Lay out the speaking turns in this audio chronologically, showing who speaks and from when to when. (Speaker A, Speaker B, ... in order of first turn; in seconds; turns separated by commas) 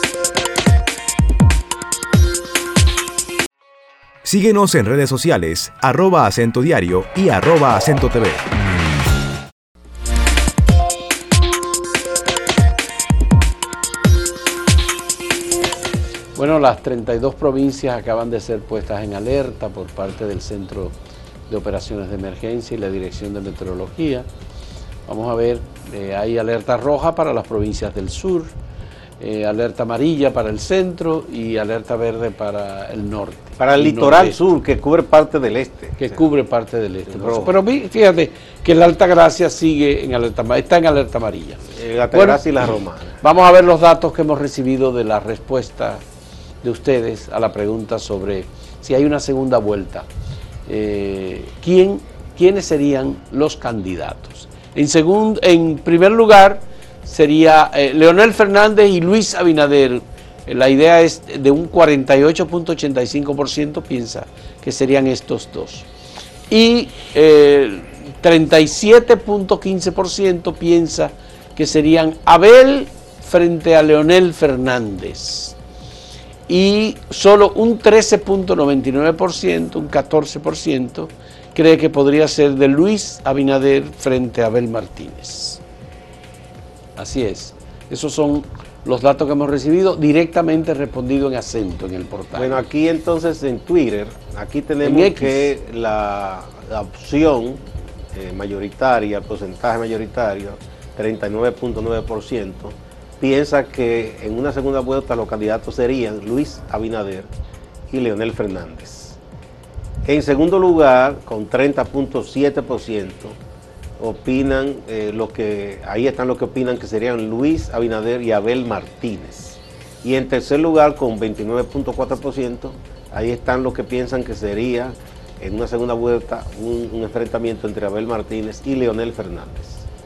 Speaker A: 4.2-8.5, Speaker B: 16.4-20.9, Speaker B: 21.5-24.3, Speaker B: 25.1-28.5, Speaker B: 29.2-34.4, Speaker C: 33.6-36.2, Speaker B: 36.0-42.7, Speaker C: 37.1-37.5, Speaker C: 41.7-43.2, Speaker B: 43.2-46.0, Speaker B: 46.6-50.0, Speaker B: 50.7-65.9, Speaker B: 66.5-75.5, Speaker B: 76.5-85.6, Speaker B: 87.0-92.6, Speaker C: 92.3-97.6, Speaker B: 94.8-95.5, Speaker C: 98.1-107.3, Speaker C: 107.9-109.2, Speaker C: 110.0-113.4, Speaker C: 114.0-129.8